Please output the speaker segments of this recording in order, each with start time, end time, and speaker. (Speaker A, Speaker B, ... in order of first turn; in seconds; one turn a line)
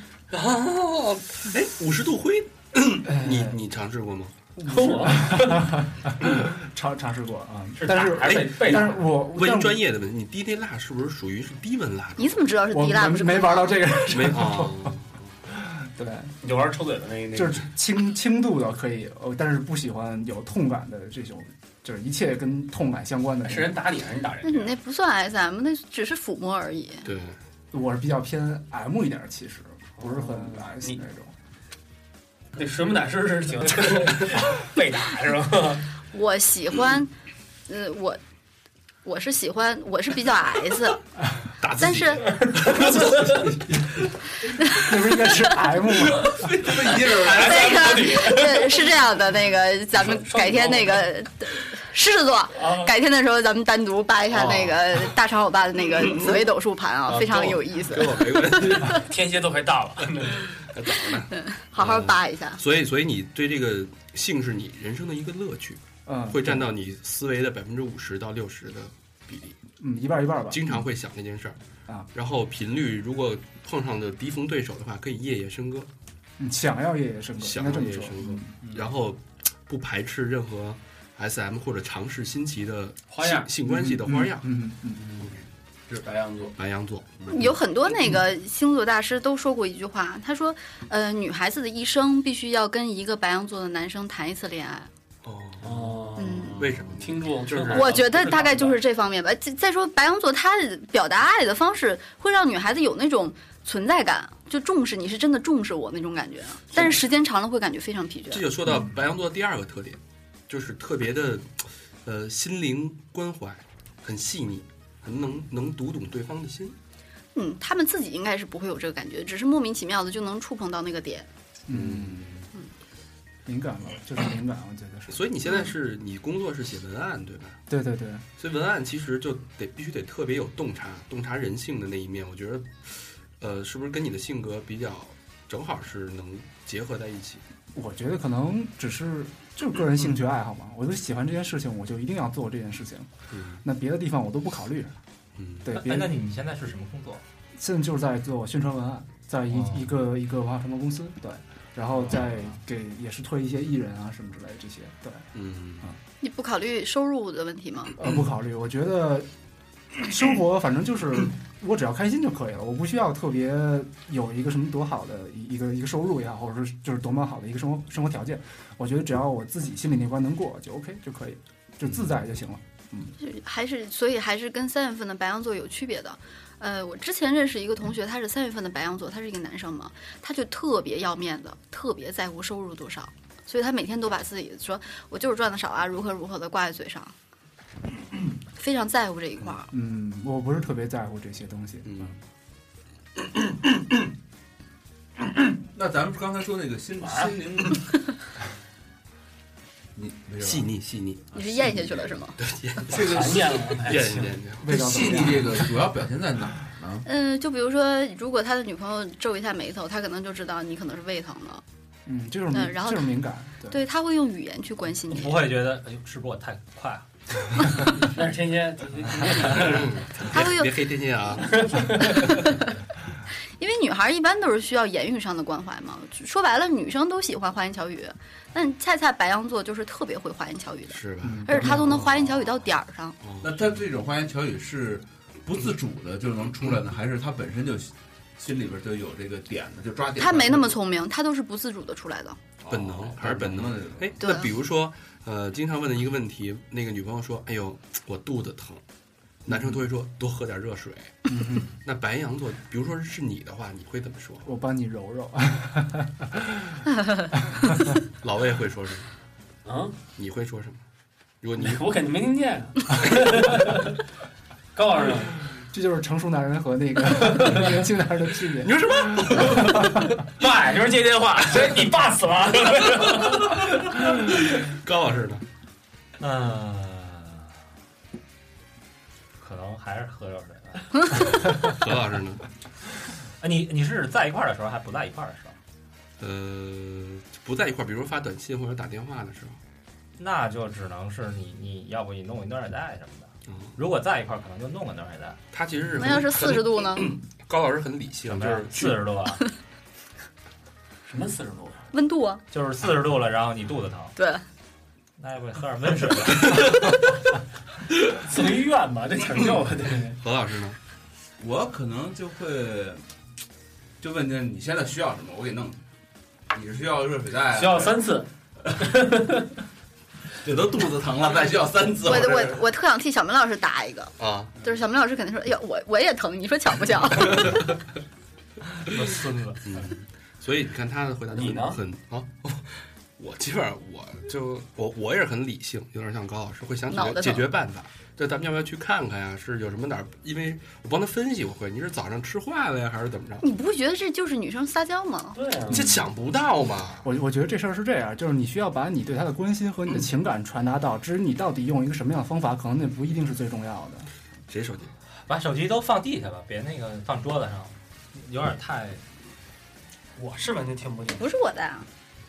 Speaker A: 0.3-4.3
Speaker B: 3.0-3.6
Speaker B: 4.6-9.8
Speaker C: 4.7-5.8
Speaker C: 7.8-9.1
Speaker A: 8.7-12.4
Speaker D: 12.2-13.8
Speaker B: 12.7-14.9
Speaker A: 14.1-15.1
Speaker B: 15.5-16.3
Speaker C: 16.4-17.6
Speaker B: 17.3-23.7
Speaker C: 23.5-24.7
Speaker D: 24.4-27.0
Speaker A: 27.0-27.4
Speaker B: 27.7-31.3
Speaker C: 30.0-31.0
Speaker C: 32.5-35.9
Speaker D: 36.1-37.1
Speaker D: 37.7-38.2
Speaker D: 39.0-41.0
Speaker A: 41.6-43.4
Speaker D: 41.8-42.3
Speaker C: 42.3-43.5
Speaker B: 42.8-44.0
Speaker D: 44.5-44.9
Speaker B: 44.7-46.7
Speaker C: 45.9-48.9
Speaker E: 46.4-48.0
Speaker D: 47.3-59.0
Speaker C: 49.9-51.0
Speaker C: 52.5-52.9
Speaker A: 54.3-54.7
Speaker C: 57.1-57.7
Speaker A: 57.8-59.0
Speaker C: 58.5-60.5
Speaker A: 60.6-69.6
Speaker D: 61.3-62.6
Speaker B: 66.0-66.7
Speaker B: 69.8-70.8
Speaker A: 70.5-71.6
Speaker A: 72.1-75.9
Speaker B: 76.4-78.5
Speaker A: 77.4-84.5
Speaker E: 78.6-78.9
Speaker C: 83.1-83.5
Speaker B: 83.6-85.2
Speaker E: 85.9-86.6
Speaker A: 86.5-87.4
Speaker D: 87.3-94.9
Speaker A: 95.2-97.9
Speaker C: 95.6-98.8
Speaker D: 96.2-96.7
Speaker E: 96.4-96.8
Speaker D: 97.7-108.5
Speaker A: 108.3-116.8
Speaker D: 117.3-121.3
Speaker B: 121.7-122.3
Speaker A: 121.7-122.5
Speaker B: 123.5-125.2
Speaker A: 125.1-127.6
Speaker B: 127.7-128.2
Speaker A: 128.4-132.9
Speaker A: 133.4-137.4
Speaker B: 137.7-143.1
Speaker A: 143.3-143.6
Speaker B: 143.6-144.9
Speaker A: 145.4-145.7
Speaker B: 145.6-146.2
Speaker F: 145.7-147.2
Speaker B: 147.6-155.2
Speaker F: 149.5-149.9
Speaker A: 155.3-155.9
Speaker D: 156.2-158.0
Speaker B: 158.0-159.3
Speaker B: 159.9-173.1
Speaker D: 173.2-187.1
Speaker D: 188.6-189.7
Speaker B: 189.7-192.1
Speaker A: 191.9-192.2
Speaker E: 195.7-197.8
Speaker C: 197.0-197.3
Speaker E: 199.9-200.7
Speaker A: 200.4-201.4
Speaker D: 201.3-202.4
Speaker A: 202.4-204.8
Speaker E: 202.9-204.0
Speaker C: 202.9-204.3
Speaker B: 204.6-205.6
Speaker E: 204.6-207.1
Speaker D: 207.0-211.6
Speaker B: 212.1-213.8
Speaker D: 212.5-213.1
Speaker D: 213.7-215.4
Speaker F: 215.1-217.0
Speaker C: 218.0-220.3
Speaker A: 219.4-222.0
Speaker D: 220.3-220.7
Speaker C: 221.5-222.3
Speaker D: 222.0-222.7
Speaker D: 223.6-233.2
Speaker A: 230.9-232.4
Speaker B: 231.2-232.1
Speaker A: 233.2-233.8
Speaker E: 233.4-240.8
Speaker D: 240.2-242.4
Speaker E: 242.6-244.2
Speaker A: 242.7-248.8
Speaker D: 244.2-244.5
Speaker A: 249.4-251.1
Speaker B: 249.5-249.8
Speaker B: 251.3-251.7
Speaker A: 251.8-254.5
Speaker B: 254.4-256.8
Speaker D: 256.9-257.3
Speaker B: 257.5-257.9
Speaker A: 258.2-259.1
Speaker C: 259.6-259.9
Speaker A: 260.1-260.8
Speaker A: 261.4-261.8
Speaker C: 261.6-263.9
Speaker C: 264.7-265.3
Speaker B: 265.7-270.1
Speaker A: 268.6-270.0
Speaker C: 270.4-273.8
Speaker A: 273.9-275.4
Speaker F: 276.2-277.4
Speaker F: 279.4-281.4
Speaker A: 281.5-282.4
Speaker F: 283.4-285.6
Speaker A: 286.2-289.6
Speaker F: 290.2-295.4
Speaker A: 295.5-299.0
Speaker D: 295.9-297.1
Speaker F: 298.3-299.4
Speaker C: 301.1-301.8
Speaker D: 301.9-302.4
Speaker F: 302.5-304.1
Speaker D: 304.1-304.4
Speaker F: 305.2-306.6
Speaker C: 308.2-310.2
Speaker A: 310.2-310.8
Speaker E: 311.4-313.0
Speaker E: 314.0-315.8
Speaker E: 316.5-318.0
Speaker C: 317.5-319.5
Speaker E: 320.4-322.6
Speaker D: 322.0-327.7
Speaker A: 324.2-324.6
Speaker C: 328.9-329.6
Speaker A: 329.6-343.4
Speaker C: 331.3-331.8
Speaker D: 336.9-337.5
Speaker D: 343.4-345.4
Speaker C: 345.3-345.9
Speaker A: 345.7-347.1
Speaker B: 347.0-354.1
Speaker A: 354.5-354.9
Speaker F: 355.3-359.0
Speaker C: 360.1-361.3
Speaker D: 361.2-361.9